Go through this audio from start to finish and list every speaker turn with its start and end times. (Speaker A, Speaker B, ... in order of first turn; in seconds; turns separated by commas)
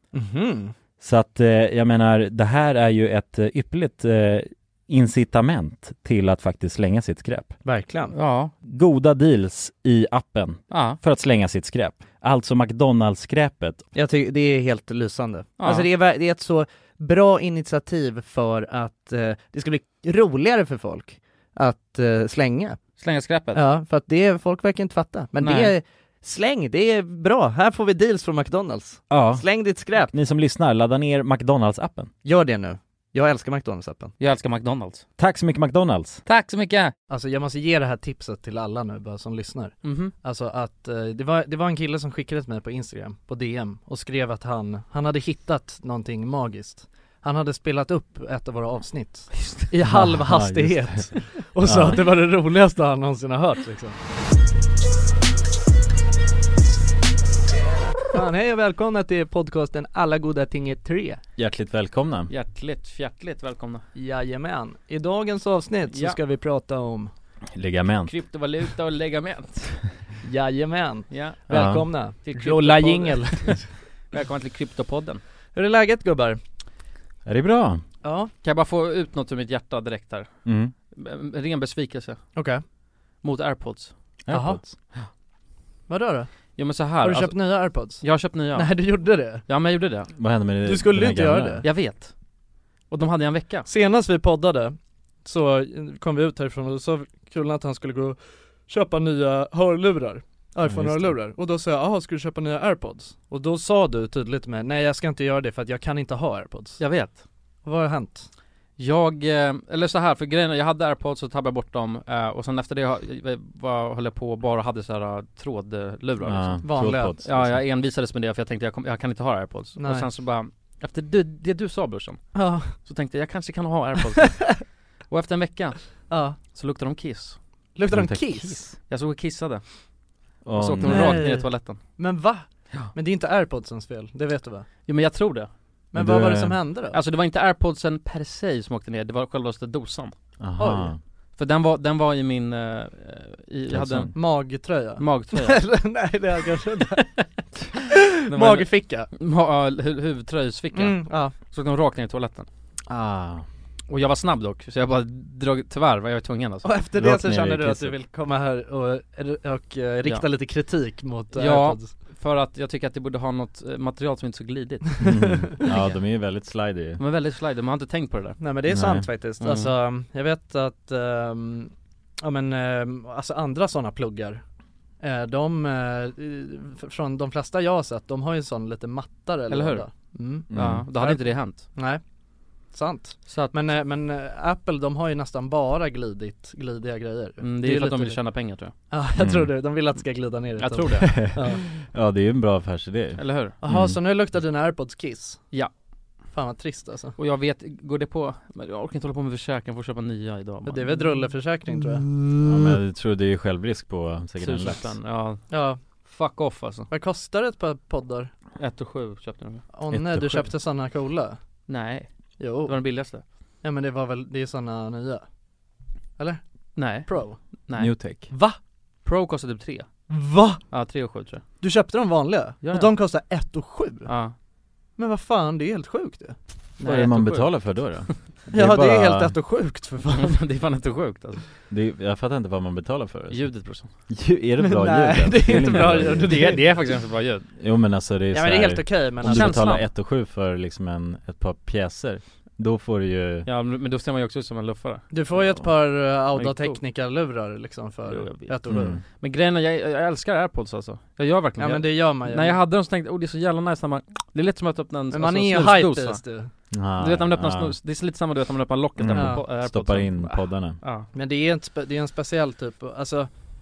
Speaker A: 0.1-0.7, Speaker B: 1.0-7.5, Speaker A: 7.7-8.2, Speaker C: 8.1-8.5, Speaker B: 8.6-13.9, Speaker C: 10.7-11.0, Speaker A: 13.9-22.8, Speaker C: 15.6-15.9, Speaker C: 23.0-23.6, Speaker A: 23.5-30.1, Speaker C: 25.4-25.7, Speaker B: 29.1-29.4, Speaker B: 30.1-32.1, Speaker A: 32.2-34.1, Speaker C: 34.2-35.0, Speaker B: 35.2-36.2, Speaker C: 36.3-36.9, Speaker A: 37.1-54.0, Speaker C: 39.8-40.1, Speaker B: 49.9-52.0, Speaker A: 57.5-61.2, Speaker B: 61.4-62.3, Speaker C: 62.3-63.9, Speaker A: 64.0-67.1, Speaker C: 65.9-66.2, Speaker B: 67.5-68.1, Speaker C: 68.1-69.9, Speaker A: 70.2-73.7, Speaker C: 71.1-71.7, Speaker B: 71.5-71.9, Speaker C: 72.2-73.6, Speaker C: 74.1-75.2, Speaker A: 75.5-76.4, Speaker B: 77.3-77.8, Speaker A: 78.0-78.3, Speaker C: 78.4-80.3, Speaker B: 80.5-80.7, Speaker C: 80.9-82.3, Speaker A: 82.4-82.6, Speaker C: 83.2-83.9, Speaker B: 84.2-84.8, Speaker A: 84.3-84.6, Speaker A: 85.9-86.3, Speaker C: 86.6-90.1, Speaker A: 87.0-89.4, Speaker B: 90.2-91.7, Speaker A: 90.7-91.7, Speaker C: 91.6-92.1, Speaker C: 92.9-93.7, Speaker A: 93.7-106.8, Speaker B: 100.7-101.2, Speaker C: 106.8-107.2, Speaker A: 107.7-108.3, Speaker C: 108.8-127.4, Speaker B: 116.2-117.6, Speaker A: 116.6-117.2, Speaker A: 119.8-120.1, Speaker A: 122.3-122.8, Speaker A: 124.2-124.5, Speaker A: 126.1-126.4, Speaker A: 127.8-128.7, Speaker B: 127.9-128.8, Speaker C: 128.9-129.8, Speaker B: 130.4-131.2, Speaker C: 130.6-131.8, Speaker A: 130.9-134.7, Speaker C: 134.9-135.5, Speaker A: 135.9-137.0, Speaker B: 135.9-136.6, Speaker C: 136.9-140.2, Speaker B: 140.4-141.0, Speaker A: 140.6-140.9, Speaker C: 141.4-144.3, Speaker B: 143.7-144.1, Speaker A: 144.1-147.1, Speaker C: 145.0-145.6, Speaker A: 147.8-149.1, Speaker C: 148.3-152.5, Speaker A: 150.7-151.3, Speaker B: 152.9-153.5, Speaker C: 153.9-156.7, Speaker A: 156.6-161.9, Speaker B: 157.0-158.0, Speaker C: 161.3-165.0, Speaker B: 165.0-167.0, Speaker A: 165.0-165.5, Speaker C: 165.6-165.9, Speaker C: 167.0-168.4, Speaker A: 168.4-174.4, Speaker B: 168.7-169.1, Speaker C: 169.4-169.7, Speaker A: 175.0-182.0, Speaker C: 179.5-179.9, Speaker B: 180.5-180.9, Speaker C: 180.5-181.7, Speaker A: 182.7-188.2, Speaker C: 183.3-183.6, Speaker C: 187.4-188.7, Speaker A: 188.9-191.6, Speaker B: 189.2-189.5, Speaker C: 190.6-191.3, Speaker B: 191.0-194.0, Speaker C: 193.2-193.6, Speaker A: 193.6-195.4, Speaker A: 196.3-197.2, Speaker C: 197.2-201.3, Speaker A: 200.6-202.1, Speaker B: 202.4-204.9, Speaker C: 204.4-205.4, Speaker A: 205.5-205.8, Speaker C: 206.1-206.9, Speaker A: 206.9-208.3, Speaker C: 208.6-209.7, Speaker A: 209.7-211.4, Speaker B: 209.9-210.5, Speaker C: 211.7-212.1, Speaker A: 212.4-212.8, Speaker C: 212.6-213.2, Speaker A: 213.6-215.2, Speaker A: 216.2-217.4, Speaker C: 216.8-217.1, Speaker C: 217.7-217.9, Speaker B: 217.8-218.3, Speaker A: 218.3-218.6, Speaker C: 219.0-219.9, Speaker A: 220.1-220.6, Speaker C: 220.7-221.4, Speaker A: 221.6-224.1, Speaker C: 222.6-222.9, Speaker C: 224.1-224.3, Speaker A: 225.0-226.4, Speaker C: 226.8-227.9, Speaker B: 226.8-229.3, Speaker A: 228.5-230.4, Speaker C: 230.2-231.4, Speaker B: 231.7-233.5, Speaker C: 233.3-233.9, Speaker B: 234.1-236.4, Speaker A: 234.6-236.6, Speaker C: 235.6-237.5, Speaker B: 237.6-243.5, Speaker A: 238.3-239.8, Speaker C: 239.2-239.8, Speaker C: 243.5-245.6, Speaker A: 245.1-249.0, Speaker C: 246.3-246.8, Speaker C: 248.1-256.2, Speaker B: 248.7-249.0, Speaker A: 251.6-252.6, Speaker A: 255.1-256.5, Speaker B: 256.7-257.8, Speaker C: 257.0-261.1, Speaker B: 259.0-260.8, Speaker A: 259.1-259.4, Speaker A: 261.1-263.3